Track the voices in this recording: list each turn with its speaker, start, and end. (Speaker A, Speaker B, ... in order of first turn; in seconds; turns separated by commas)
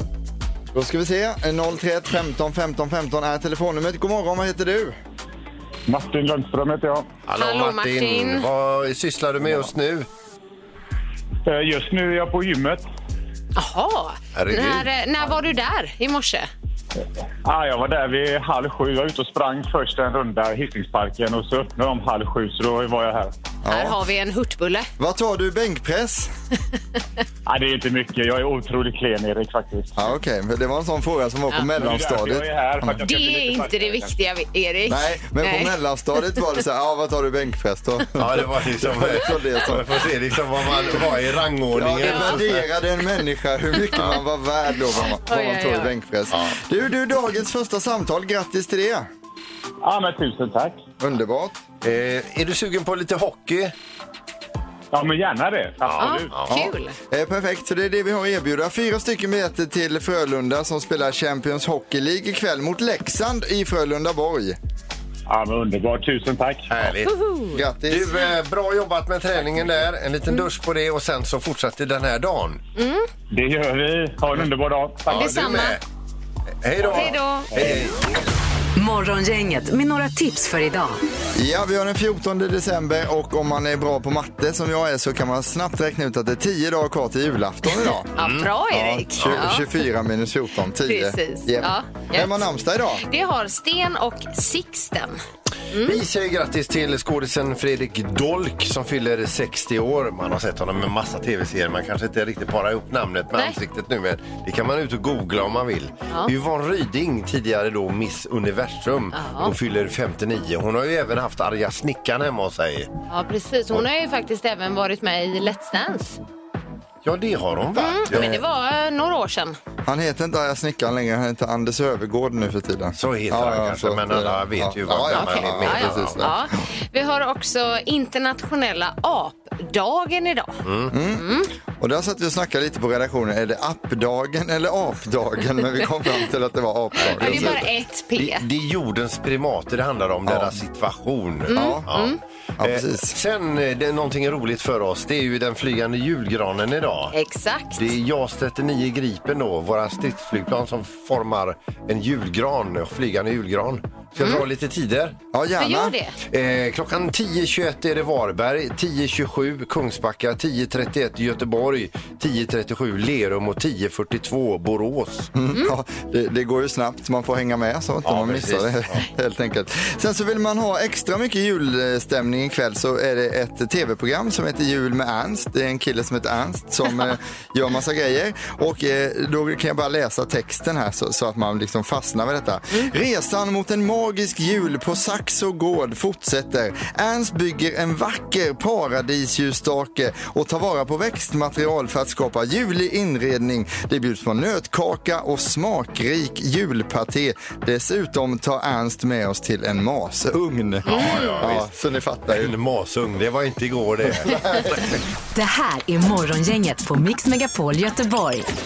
Speaker A: 0.7-5.0, Speaker B: 5.9-7.1, Speaker C: 7.2-10.1, Speaker D: 7.3-8.5, Speaker A: 9.4-9.7, Speaker B: 11.4-12.8, Speaker D: 13.5-16.5, Speaker C: 14.3-14.9, Speaker B: 17.4-23.3, Speaker A: 23.6-24.0, Speaker D: 23.7-24.9, Speaker A: 25.0-26.3, Speaker B: 27.5-30.0, Speaker A: 29.9-33.0, Speaker B: 31.8-34.1, Speaker D: 32.9-35.7, Speaker A: 34.9-39.9, Speaker C: 38.2-42.7, Speaker A: 41.7-49.1, Speaker D: 42.0-42.4, Speaker D: 45.2-45.9, Speaker C: 46.3-46.5, Speaker B: 49.8-50.8, Speaker A: 51.0-51.6, Speaker C: 51.8-53.7, Speaker B: 54.9-56.4, Speaker C: 55.8-56.6, Speaker D: 56.0-57.0, Speaker A: 56.5-64.6, Speaker B: 65.3-66.7, Speaker C: 66.7-67.2, Speaker D: 67.0-67.6, Speaker A: 67.5-68.1, Speaker C: 67.9-72.6, Speaker D: 72.8-73.1, Speaker B: 73.3-75.3, Speaker C: 75.0-75.8, Speaker D: 75.1-75.8, Speaker C: 76.6-78.1, Speaker D: 76.8-77.5, Speaker E: 78.8-81.0, Speaker A: 81.3-88.1, Speaker D: 88.1-89.8, Speaker C: 88.2-88.5, Speaker A: 88.7-93.0, Speaker C: 89.2-89.5, Speaker D: 90.8-96.0, Speaker C: 95.8-112.9, Speaker D: 109.1-109.5, Speaker D: 113.1-116.2, Speaker C: 117.0-118.4, Speaker D: 117.7-119.5, Speaker A: 119.8-126.6, Speaker C: 123.0-126.2, Speaker D: 125.1-130.6, Speaker C: 130.6-130.9, Speaker A: 130.9-131.3, Speaker D: 131.1-131.5, Speaker A: 131.8-137.7, Speaker C: 137.0-147.1, Speaker D: 137.0-138.5, Speaker A: 140.2-140.6, Speaker A: 141.5-141.9, Speaker D: 141.5-142.2, Speaker A: 142.6-143.1, Speaker D: 147.1-147.9, Speaker C: 147.7-155.2, Speaker D: 154.1-154.4, Speaker A: 155.3-155.9, Speaker D: 155.6-156.2, Speaker C: 156.3-165.3, Speaker A: 165.3-202.5, Speaker C: 168.0-169.1, Speaker D: 200.8-201.4, Speaker C: 200.9-201.7, Speaker C: 202.3-204.4, Speaker A: 204.0-204.9, Speaker E: 205.3-208.5